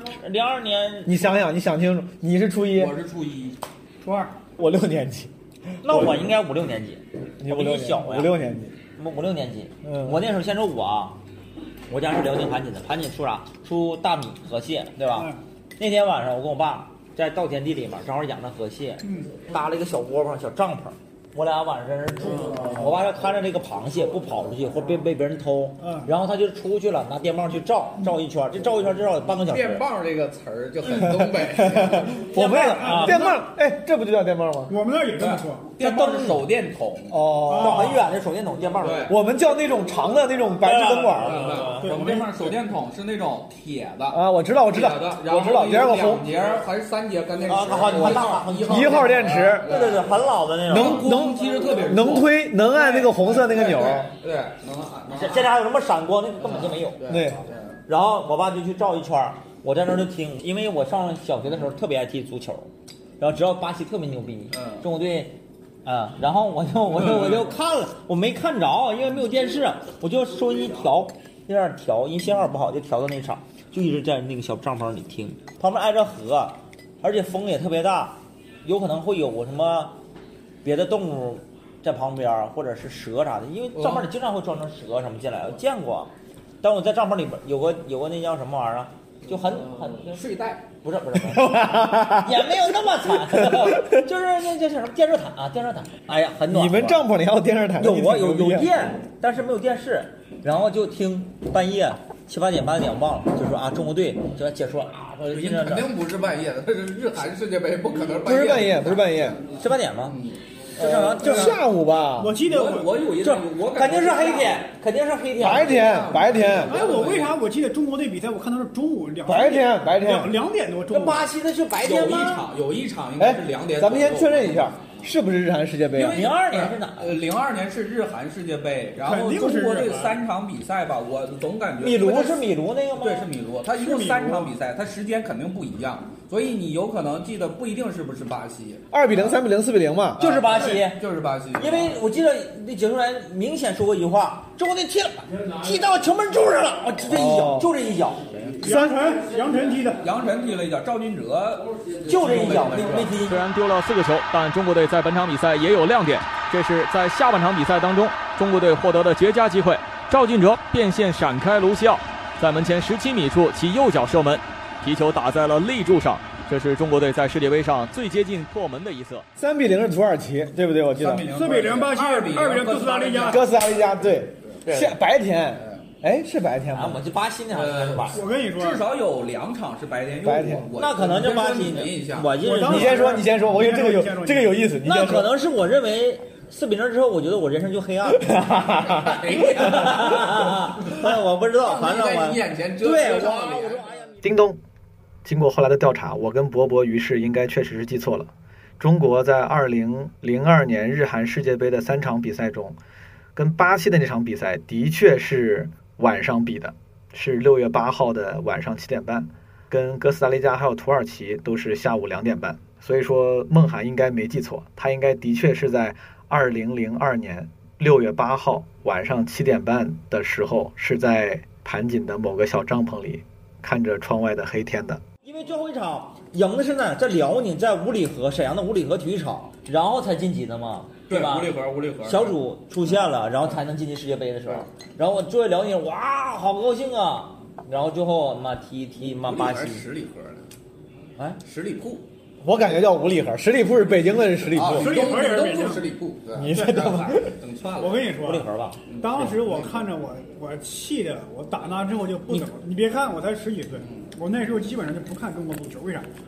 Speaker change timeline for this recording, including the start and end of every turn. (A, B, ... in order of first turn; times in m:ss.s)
0:00.2-0:01.1 A
0:01.0-0:02.9 B
0:02.7-0:03.6 C
0:04.0-0:04.4 D
0:04.6-0:05.3 B
0:05.8-0:08.3 A
0:05.8-0:06.3 B
0:07.4-0:08.7 B
0:09.0-0:11.2 A
0:09.8-0:10.2 B
0:11.9-0:29.8 A
0:19.0-0:19.3 D
0:25.8-0:26.1 D
0:29.4-0:32.2 C
0:31.1-0:34.7 B
0:32.3-0:33.3 A
0:32.8-0:33.4 D
0:34.7-0:35.7 D
0:35.2-0:37.4 C
0:35.8-0:36.3 B
0:37.1-0:38.0 B
0:37.5-0:37.9 D
0:37.6-0:39.1 A
0:38.8-0:39.1 C
0:39.1-0:41.4 B
0:40.6-0:41.9 A
0:41.3-0:55.5 C
0:41.8-0:42.4 D
0:44.1-0:46.3 B
0:47.5-0:51.1 A
0:48.7-0:49.7 B
0:50.7-0:54.1 B
0:55.1-0:57.0 A
0:56.4-0:57.8 C
0:57.1-0:57.4 B
0:57.9-1:20.0 A
1:04.5-1:04.9 C
1:20.6-1:26.1 A
1:23.8-1:24.1 C
1:26.6-1:30.2 A
1:29.3-1:30.7 C
1:30.8-1:37.0 A
1:31.3-1:32.4 B
1:33.3-1:33.9 B
1:36.5-1:38.7 B
1:37.8-1:45.9 A
1:45.3-1:49.4 C
1:48.2-1:49.4 B
1:49.6-1:50.2 A
1:50.1-1:50.4 C
1:50.8-1:51.6 A
1:50.8-1:52.4 B
1:51.0-1:51.3 C
1:52.2-1:53.0 D
1:52.4-1:54.7 C
1:53.2-1:55.8 A
1:55.4-1:56.7 B
1:55.4-1:57.4 C
1:56.6-2:01.3 D
1:59.3-2:00.4 B
2:00.9-2:02.4 A
2:01.8-2:05.1 C
2:03.2-2:06.2 B
2:05.9-2:19.4 C
2:06.1-2:07.2 A
2:09.0-2:10.2 D
2:11.8-2:13.3 A
2:13.8-2:14.5 D
2:18.9-2:20.2 B
2:20.2-2:21.0 A
2:20.2-2:22.0 C
2:21.6-2:28.3 A
2:27.1-2:27.7 B
2:28.3-2:28.6 C
2:28.6-2:30.0 D
2:30.0-2:33.2 C
2:32.1-2:33.4 A
2:32.2-2:33.1 B
2:33.2-2:49.3 E
2:49.4-2:51.3 B
2:50.9-2:53.8 C
2:51.3-2:53.4 D
2:53.3-2:57.0 B
2:54.7-2:55.0 A
2:55.6-2:55.9 C
2:56.7-2:58.2 A
2:57.5-3:02.4 C
2:58.2-2:58.8 D
3:00.2-3:00.7 B
3:00.8-3:03.0 A
3:02.4-3:04.6 D
3:02.6-3:05.3 B
3:04.8-3:14.1 A
3:08.6-3:14.0 C
3:14.2-3:14.6 F
3:15.2-3:22.8 F
3:23.4-3:45.0 F
3:45.2-3:59.8 A
3:51.1-3:52.4 C
3:59.0-4:00.5 C
4:01.4-4:02.0 C
4:02.4-4:04.9 B
4:04.1-4:08.2 C
4:04.8-4:05.9 D
4:06.4-4:07.3 B
4:07.8-4:08.5 D
4:08.2-4:09.3 A
4:08.9-4:09.8 C
4:09.0-4:16.1 D
4:13.8-4:14.1 C